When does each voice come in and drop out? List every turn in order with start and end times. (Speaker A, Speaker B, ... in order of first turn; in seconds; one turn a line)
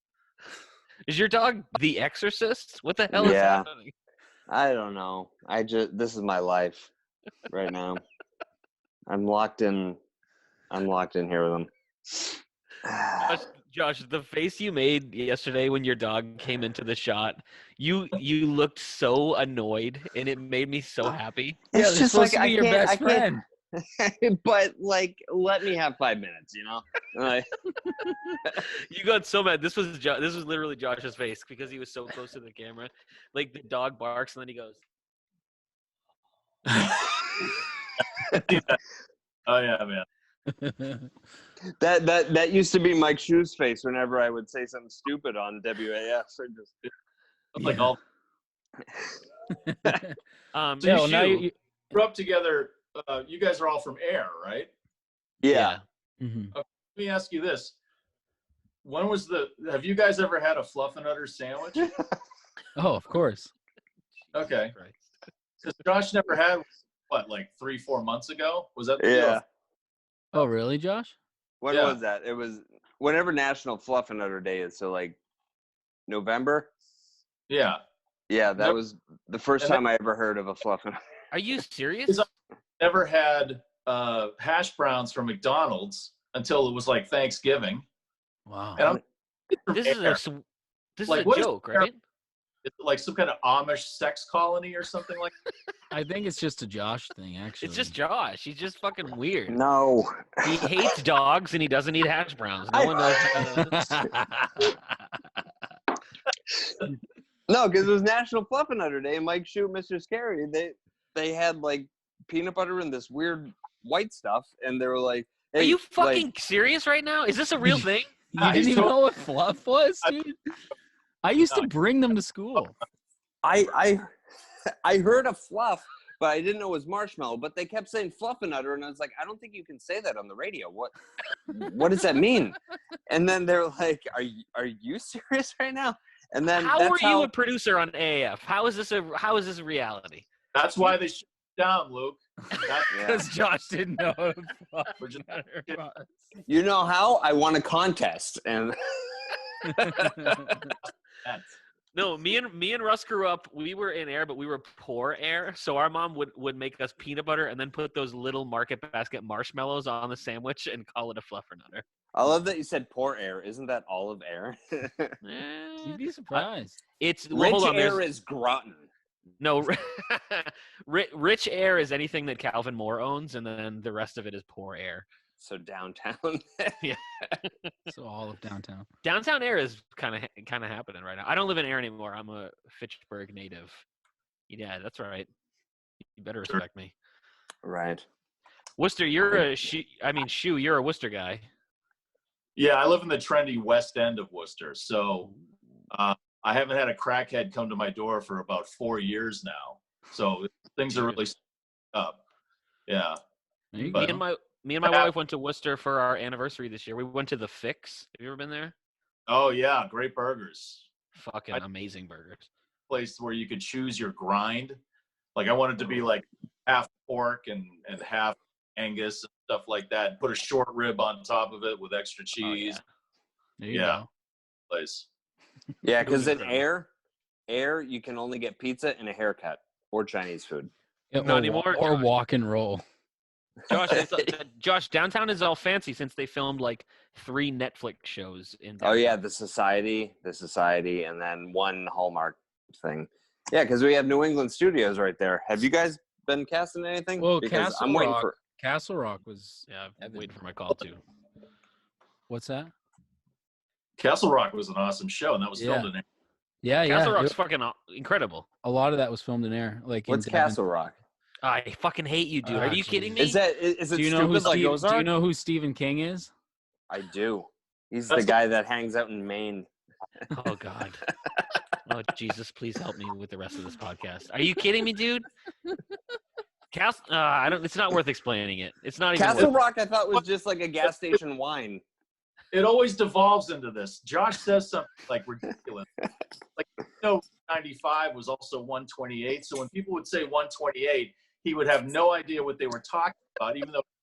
Speaker A: 1.1-3.9
Speaker B: 3.1-3.7
Speaker B: 4.5-6.9
Speaker B: 7.5-8.0
Speaker B: 9.1-10.0
Speaker B: 10.7-13.4
Speaker A: 13.2-21.6
Speaker C: 21.7-23.4
Speaker B: 21.7-27.5
Speaker A: 28.9-34.8
Speaker D: 36.7-37.1
Speaker D: 38.4-38.8
Speaker D: 39.5-40.1
Speaker C: 40.5-41.1
Speaker B: 41.8-46.8
Speaker D: 47.5-48.0
Speaker C: 47.6-47.9
Speaker C: 49.6-50.2
Speaker A: 50.5-51.4
Speaker D: 50.8-51.1
Speaker C: 50.8-51.5
Speaker D: 51.9-54.7
Speaker B: 55.4-55.8
Speaker A: 55.5-55.8
Speaker C: 56.2-56.5
Speaker D: 56.5-57.7
Speaker D: 58.8-61.9
Speaker B: 61.8-62.1
Speaker C: 62.8-63.5
Speaker D: 64.3-64.7
Speaker A: 64.3-65.0
Speaker D: 65.6-69.4
Speaker B: 69.0-69.5
Speaker C: 70.3-71.2
Speaker B: 71.6-75.2
Speaker D: 71.7-72.0
Speaker B: 76.1-76.7
Speaker D: 77.5-77.8
Speaker B: 78.3-81.0
Speaker A: 81.3-82.2
Speaker D: 82.8-87.8
Speaker C: 88.5-89.0
Speaker D: 88.8-89.0
Speaker D: 89.5-90.2
Speaker A: 89.7-90.4
Speaker A: 91.0-92.0
Speaker D: 91.1-91.9
Speaker D: 92.7-95.3
Speaker C: 95.9-98.0
Speaker A: 97.6-99.6
Speaker B: 99.5-100.7
Speaker A: 100.4-104.1
Speaker B: 102.7-103.5
Speaker C: 103.6-104.7
Speaker B: 107.5-116.3
Speaker A: 115.5-118.1
Speaker C: 117.6-120.4
Speaker D: 118.4-119.0
Speaker C: 121.2-122.8
Speaker B: 123.4-124.1
Speaker B: 124.8-130.9
Speaker B: 131.5-132.6
Speaker B: 133.1-137.3
Speaker A: 136.5-140.2
Speaker D: 140.5-142.9
Speaker C: 142.5-146.2
Speaker B: 142.9-143.3
Speaker D: 145.0-145.8
Speaker B: 146.5-150.0
Speaker C: 149.7-150.7
Speaker D: 151.2-151.6
Speaker A: 151.9-161.8
Speaker B: 162.2-165.2
Speaker A: 165.2-166.5
Speaker C: 165.8-166.8
Speaker A: 167.0-168.0
Speaker B: 167.3-168.9
Speaker A: 169.4-175.1
Speaker B: 175.4-176.9
Speaker C: 177.9-178.9
Speaker A: 179.0-183.8
Speaker A: 184.5-185.3
Speaker A: 186.2-186.9
Speaker B: 187.6-188.1
Speaker A: 188.8-191.5
Speaker D: 192.6-195.3
Speaker D: 195.9-201.4
Speaker A: 200.9-201.2
Speaker D: 202.9-203.2
Speaker C: 203.7-204.0
Speaker D: 203.8-204.2
Speaker A: 203.9-208.7
Speaker D: 204.8-205.1
Speaker D: 209.3-210.9
Speaker A: 211.1-212.5
Speaker D: 212.9-214.8
Speaker D: 215.4-222.8
Speaker A: 222.4-222.8
Speaker C: 223.6-224.1
Speaker D: 223.7-224.0
Speaker D: 224.7-225.1
Speaker B: 225.8-226.9
Speaker A: 226.0-226.6
Speaker B: 227.5-230.7
Speaker C: 231.1-232.8
Speaker A: 231.2-232.1
Speaker A: 233.7-239.2
Speaker B: 238.8-248.3
Speaker C: 247.2-250.3
Speaker A: 249.7-251.0
Speaker C: 252.3-252.7
Speaker D: 254.0-256.0
Speaker C: 255.6-255.9
Speaker C: 256.6-257.4
Speaker A: 256.9-258.5
Speaker C: 258.6-260.6
Speaker B: 260.1-261.0
Speaker A: 261.4-263.4
Speaker C: 262.4-263.3
Speaker B: 263.2-265.1
Speaker C: 263.9-266.3
Speaker B: 266.9-269.7
Speaker D: 268.1-268.4
Speaker A: 270.3-271.0
Speaker A: 271.9-275.3
Speaker A: 276.7-279.6
Speaker B: 279.2-281.8
Speaker D: 282.5-285.9
Speaker D: 286.6-293.8